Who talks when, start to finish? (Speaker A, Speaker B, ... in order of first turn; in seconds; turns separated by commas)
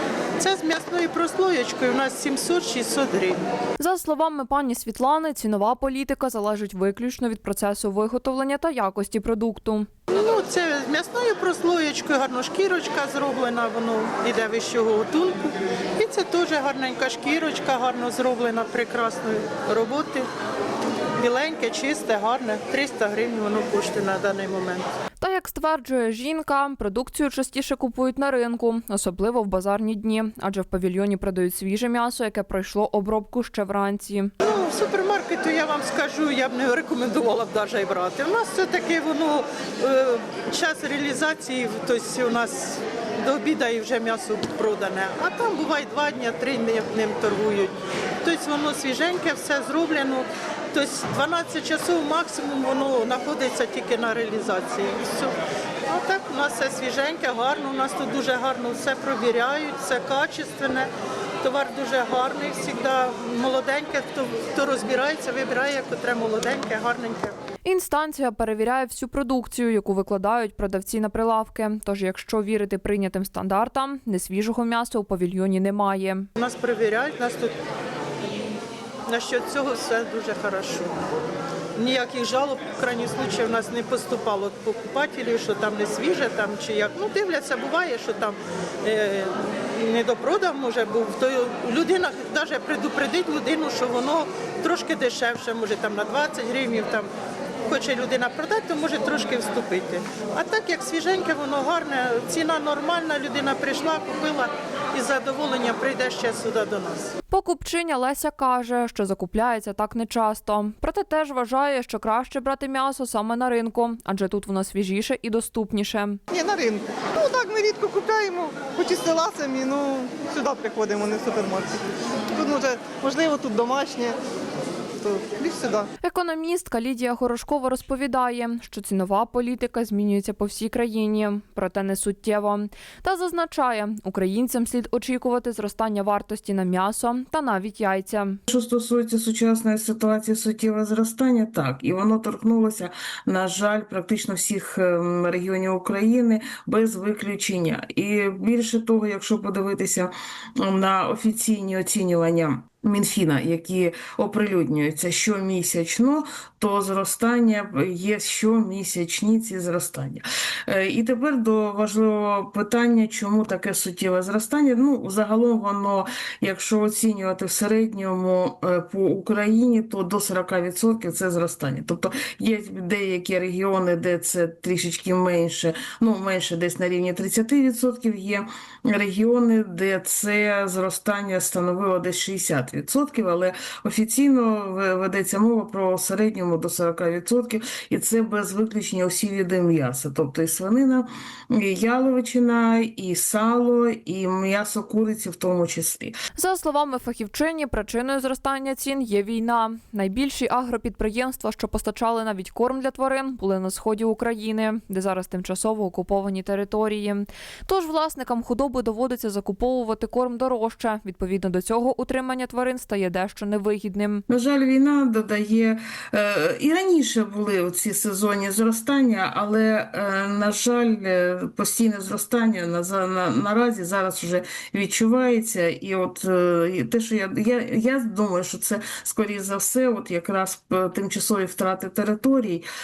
Speaker A: 0.4-3.4, Speaker B: 3.8-9.9, Speaker A: 10.1-20.3, Speaker A: 21.2-24.9, Speaker B: 25.2-34.3, Speaker A: 34.4-55.4, Speaker A: 55.9-60.9, Speaker A: 61.4-67.4, Speaker B: 67.7-76.3, Speaker A: 76.4-77.6, Speaker A: 79.1-80.9, Speaker A: 81.8-97.1, Speaker A: 97.7-107.2, Speaker B: 107.3-116.2, Speaker C: 116.3-121.8, Speaker C: 122.3-124.2, Speaker C: 125.0-125.9, Speaker B: 126.0-138.4, Speaker D: 138.5-196.2, Speaker B: 196.3-214.2, Speaker D: 214.3-232.7